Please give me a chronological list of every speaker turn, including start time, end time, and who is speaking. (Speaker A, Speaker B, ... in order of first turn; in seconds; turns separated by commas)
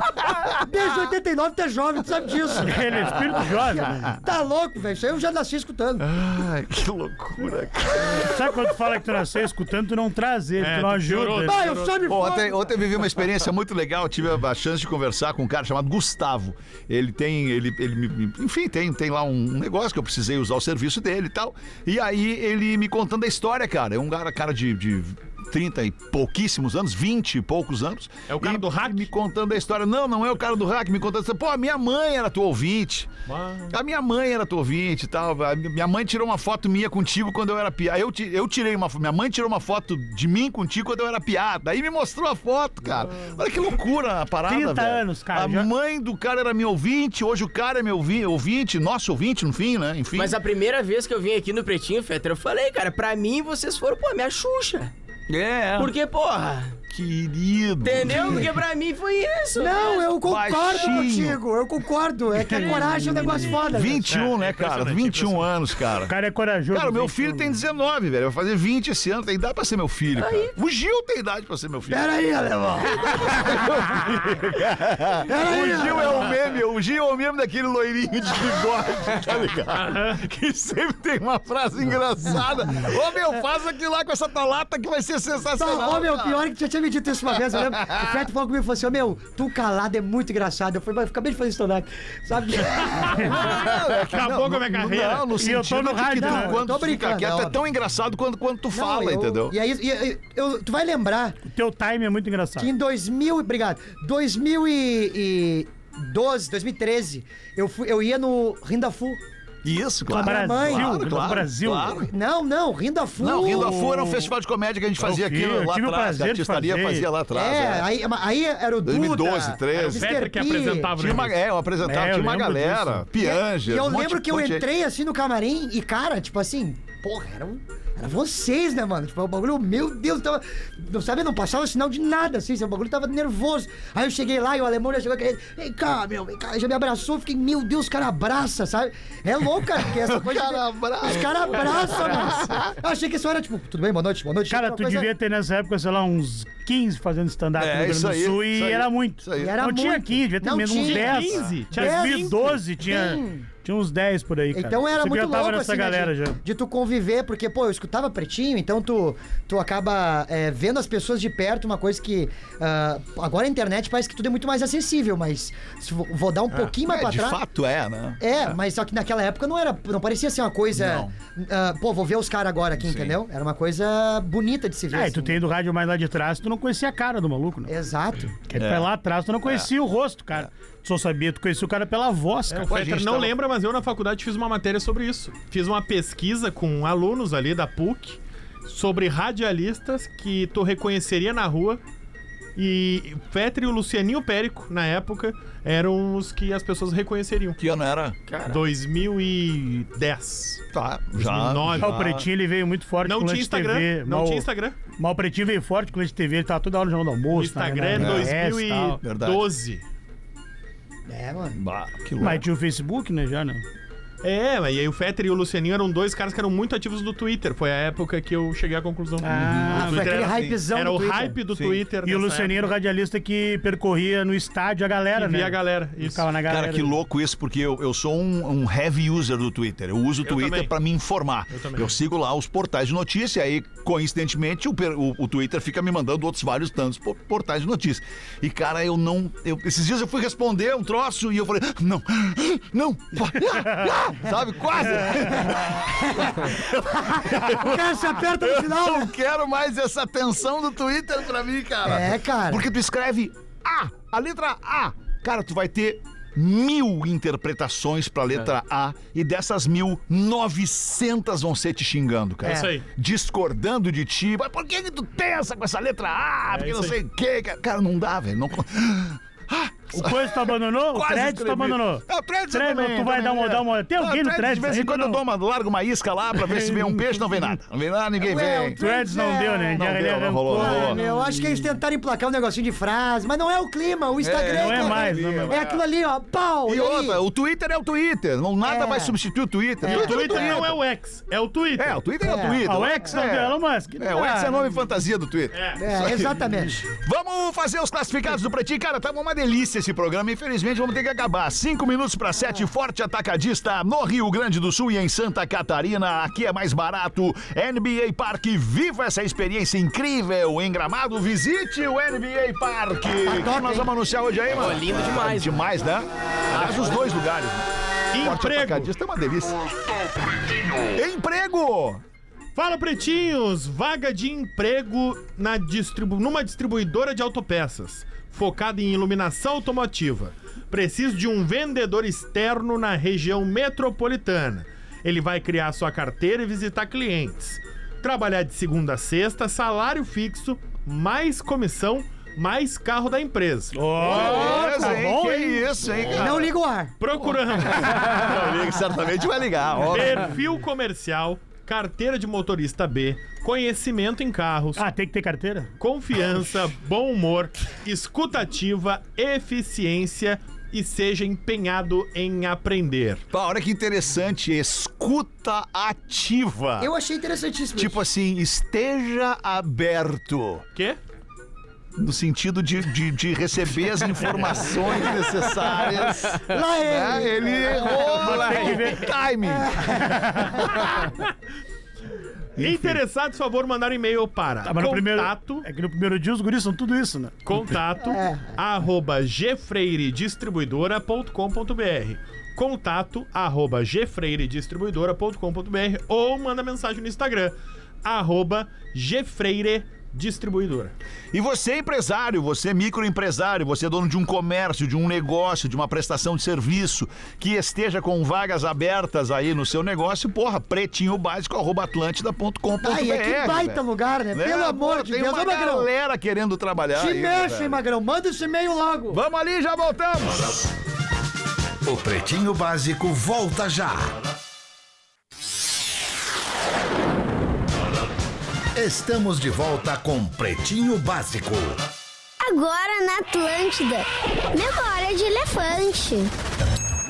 Speaker A: 0.4-0.9, Speaker B: 0.6-3.1, Speaker C: 2.6-4.2, Speaker A: 3.8-4.1, Speaker B: 4.2-6.1, Speaker A: 6.0-8.6, Speaker C: 8.2-11.6, Speaker D: 10.6-11.9, Speaker B: 11.4-12.7, Speaker A: 12.1-33.1, Speaker D: 28.3-29.1, Speaker D: 33.3-33.8, Speaker A: 33.7-50.4, Speaker C: 44.5-45.7, Speaker E: 50.2-54.9, Speaker A: 55.3-55.9, Speaker E: 55.8-56.8, Speaker A: 56.9-58.5, Speaker E: 57.8-60.2, Speaker B: 59.6-64.1, Speaker A: 60.2-61.4, Speaker E: 62.5-63.6, Speaker C: 62.5-63.5, Speaker A: 63.7-66.1, Speaker D: 64.1-65.5, Speaker C: 66.1-67.5, Speaker A: 66.7-72.1, Speaker E: 70.2-70.5, Speaker B: 71.9-73.7, Speaker A: 73.2-86.4, Speaker B: 75.3-76.3, Speaker B: 85.6-93.5, Speaker A: 87.5-88.2, Speaker A: 93.1-99.5, Speaker D: 93.3-95.3, Speaker C: 95.4-96.6, Speaker B: 96.2-97.6, Speaker B: 98.7-101.4, Speaker C: 101.5-102.7, Speaker B: 102.6-109.2, Speaker A: 109.6-112.1, Speaker C: 110.1-112.1, Speaker B: 110.2-111.1, Speaker B: 112.0-113.8, Speaker A: 113.2-117.9, Speaker C: 113.5-114.3, Speaker C: 115.0-117.1, Speaker B: 117.3-120.9, Speaker A: 118.8-120.2, Speaker D: 119.7-121.4, Speaker A: 121.0-124.7, Speaker C: 121.8-123.1, Speaker B: 123.2-145.1, Speaker A: 139.8-142.8, Speaker C: 144.5-156.4, Speaker A: 147.6-149.6, Speaker B: 149.4-153.5, Speaker D: 150.8-152.3, Speaker B: 154.5-167.4, Speaker A: 166.8-168.3, Speaker B: 168.2-175.4, Speaker A: 170.7-171.1, Speaker A: 172.8-173.2, Speaker C: 174.9-177.7, Speaker B: 177.7-178.3, Speaker C: 178.5-182.8, Speaker A: 178.6-178.9, Speaker A: 179.4-179.7, Speaker D: 182.5-191.8, Speaker A: 182.7-183.3, Speaker D: 192.6-197.6, Speaker A: 197.6-198.2, Speaker E: 198.3-198.6, Speaker D: 198.5-200.6, Speaker A: 200.7-202.3, Speaker D: 201.2-202.0, Speaker C: 201.8-204.5, Speaker D: 203.1-204.8, Speaker C: 205.0-209.0, Speaker D: 207.3-209.8, Speaker A: 207.9-208.3, Speaker A: 209.0-209.5, Speaker B: 211.1-211.6, Speaker A: 211.6-212.4, Speaker C: 212.2-213.6, Speaker D: 214.2-222.7, Speaker C: 219.2-220.2, Speaker A: 219.3-220.6, Speaker B: 219.8-221.4, Speaker A: 221.5-221.8, Speaker C: 222.0-226.9, Speaker D: 225.1-226.2, Speaker A: 226.5-278.8, Speaker D: 230.2-230.7, Speaker D: 231.5-231.9, Speaker B: 245.1-246.3, Speaker B: 247.1-249.1, Speaker B: 251.8-252.7, Speaker D: 262.4-262.9, Speaker D: 266.5-267.0, Speaker C: 269.9-275.2, Speaker C: 276.4-277.6, Speaker B: 278.2-279.8, Speaker C: 278.8-281.7, Speaker A: 279.8-281.0, Speaker B: 280.5-287.2, Speaker A: 284.2-285.7, Speaker C: 284.5-285.5, Speaker A: 286.7-290.8, Speaker B: 288.6-289.2, Speaker B: 289.8-290.7, Speaker D: 289.8-292.0, Speaker A: 291.8-320.1, Speaker B: 292.2-292.6, Speaker C: 292.6-294.7, Speaker D: 295.5-295.8, Speaker B: 295.8-296.8, Speaker B: 313.2-313.9, Speaker E: 314.5-315.6, Speaker D: 316.5-317.0, Speaker E: 316.6-316.9, Speaker D: 318.1-318.9, Speaker A: 320.6-322.0, Speaker D: 322.6-344.6, Speaker C: 343.7-345.7, Speaker A: 344.0-346.5, Speaker B: 344.1-344.6, Speaker B: 346.1-346.9, Speaker D: 347.0-348.6, Speaker A: 347.6-350.3, Speaker D: 349.9-354.8, Speaker C: 354.8-355.7, Speaker D: 355.8-363.2, Speaker A: 363.3-366.9, Speaker B: 366.8-368.0, Speaker A: 367.8-370.7, Speaker A: 372.0-381.0, Speaker B: 376.5-378.1, Speaker C: 378.1-379.1, Speaker B: 379.6-380.0, Speaker C: 379.9-380.7, Speaker D: 382.6-385.6, Speaker C: 382.6-383.0, Speaker C: 384.6-387.6, Speaker D: 387.5-400.9, Speaker B: 388.0-388.6, Speaker A: 401.3-417.8, Speaker B: 412.8-415.9, Speaker B: 416.9-419.2, Speaker A: 419.1-420.7, Speaker F: 421.9-424.2, Speaker F: 428.8-431.8, Speaker G: 432.4-436.3